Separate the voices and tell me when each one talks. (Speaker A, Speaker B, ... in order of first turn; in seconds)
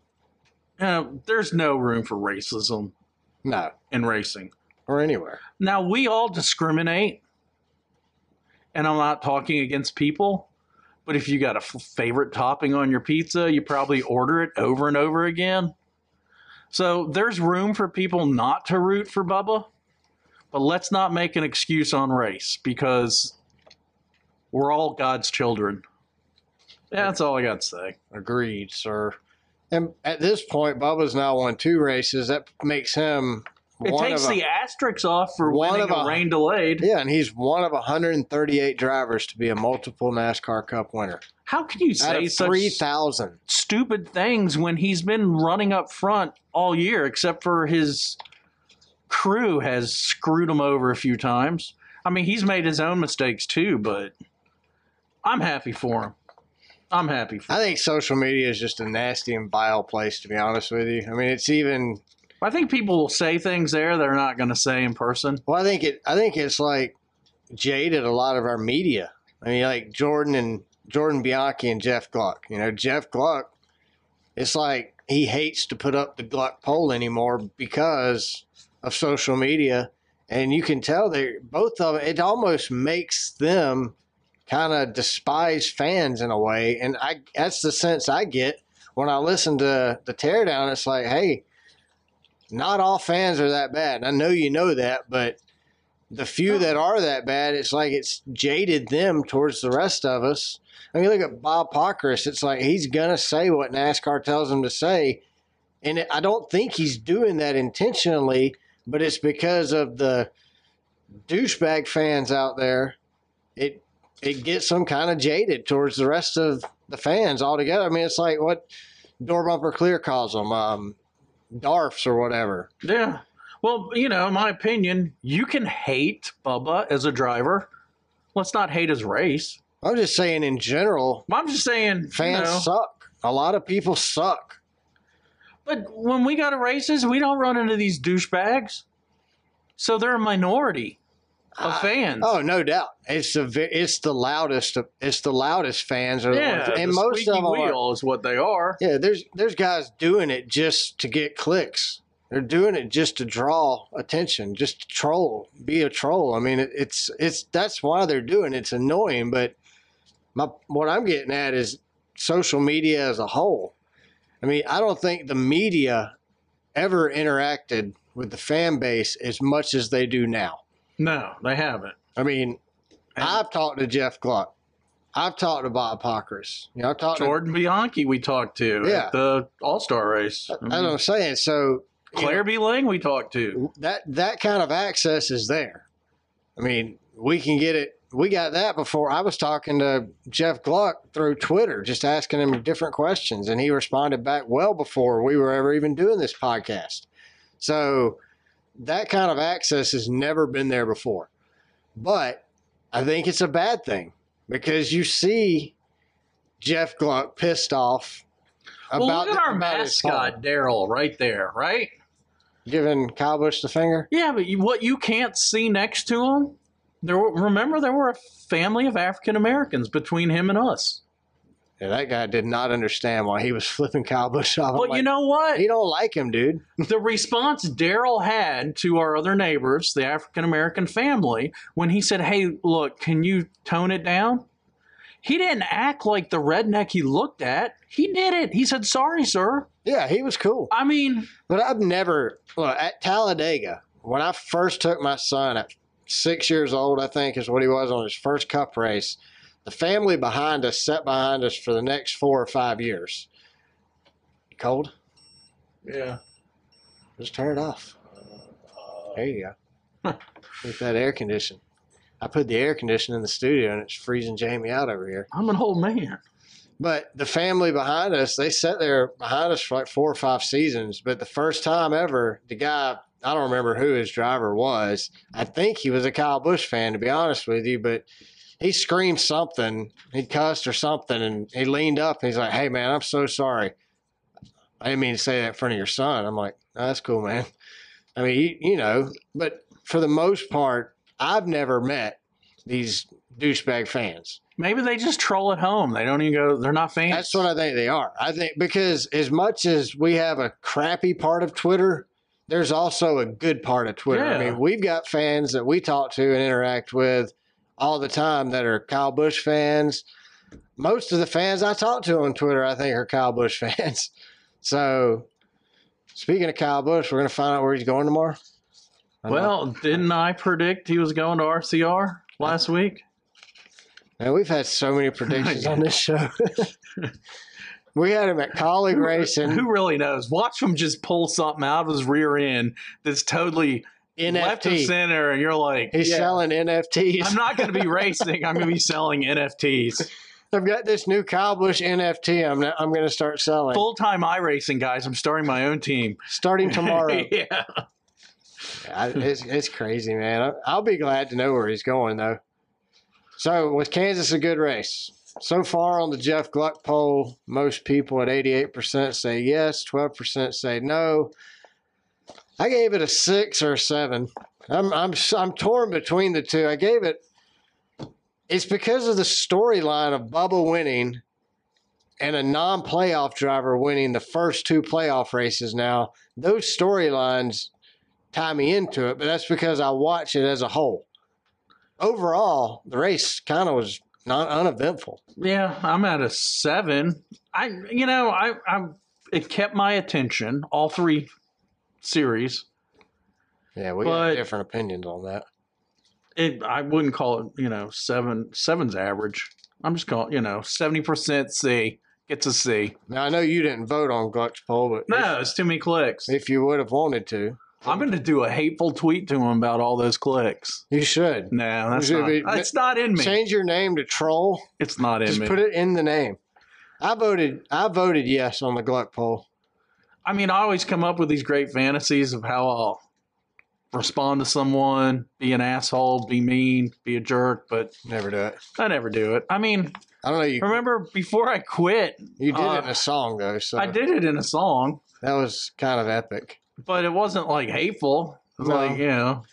Speaker A: 0.8-2.9, 3.9-4.5, 5.6-7.2, 8.7-10.5, 11.0-15.7, 16.7-19.7, 20.5-23.4, 24.5-25.8, 26.9-28.0, 33.9-36.9, 41.4-42.8, 43.5-48.2, 49.1-54.1, 55.2-56.1, 56.9-57.6, 62.4-65.4, 122.8-127.7, 128.3-129.6, 131.3-132.7, 135.6-138.8, 139.8-141.0, 141.6-142.3, 146.3-148.8, 171.0-171.9, 173.2-173.4, 177.1-180.9, 182.1-183.6, 208.9-211.9, 214.1-221.0, 224.7-225.7, 226.8-234.4, 235.2-239.7, 240.7-241.3, 255.8-256.2, 265.3-266.2, 294.6-297.4, 304.1-304.6, 319.3-323.0, 325.3-325.8, 328.9-336.4, 337.2-340.1, 343.7-347.9, 385.4-391.3, 392.0-392.6, 394.0-394.4, 396.4-403.0, 405.1-406.3, 407.9-410.8, 411.5-413.4, 414.8-415.6, 420.2-423.0, 423.9-427.9, 428.8-430.0, 430.6-433.0, 433.8-435.0, 436.8-439.4
Speaker B: 3.4-3.7, 4.9-5.4, 28.1-29.2, 29.7-34.4, 35.4-36.2, 36.8-41.2, 42.0-43.4, 57.5-62.0, 65.5-67.0, 67.5-73.5, 74.4-83.9, 84.5-91.4, 92.5-95.4, 96.1-105.2, 105.8-110.3, 111.3-113.0, 113.5-118.7, 119.2-121.0, 121.5-122.7, 129.8-131.3, 132.1-134.6, 141.6-147.8, 148.8-159.5, 160.3-163.7, 164.4-166.1, 166.8-170.6, 172.2-172.6, 173.2-174.5, 175.1-177.4, 178.8-179.1, 180.5-182.4, 183.5-185.8, 186.6-197.1, 197.6-198.2, 198.8-201.3, 202.0-205.8, 206.6-208.2, 208.9-210.3, 212.7-214.1, 221.8-226.8, 239.8-240.7, 241.5-253.3, 254.5-254.9, 257.2-257.9, 259.1-259.5, 260.6-261.6, 262.2-265.3, 266.8-278.1, 278.6-283.7, 284.8-287.5, 288.1-294.4, 297.1-310.0, 310.8-314.1, 314.6-315.3, 316.1-318.4, 319.2-320.0, 324.2-326.7, 327.9-329.6, 334.2-334.9, 335.9-338.0, 340.5-343.9, 346.3-347.3, 348.8-352.4, 353.4-361.3, 362.6-367.2, 368.5-371.2, 372.2-377.7, 378.3-381.1, 382.0-385.2, 393.8-395.4, 403.1-405.3, 406.3-408.1, 410.9-414.7, 415.2-416.4, 417.0-419.4, 428.1-428.6, 430.2-430.8, 432.4-434.0, 435.2-436.6, 438.6-439.0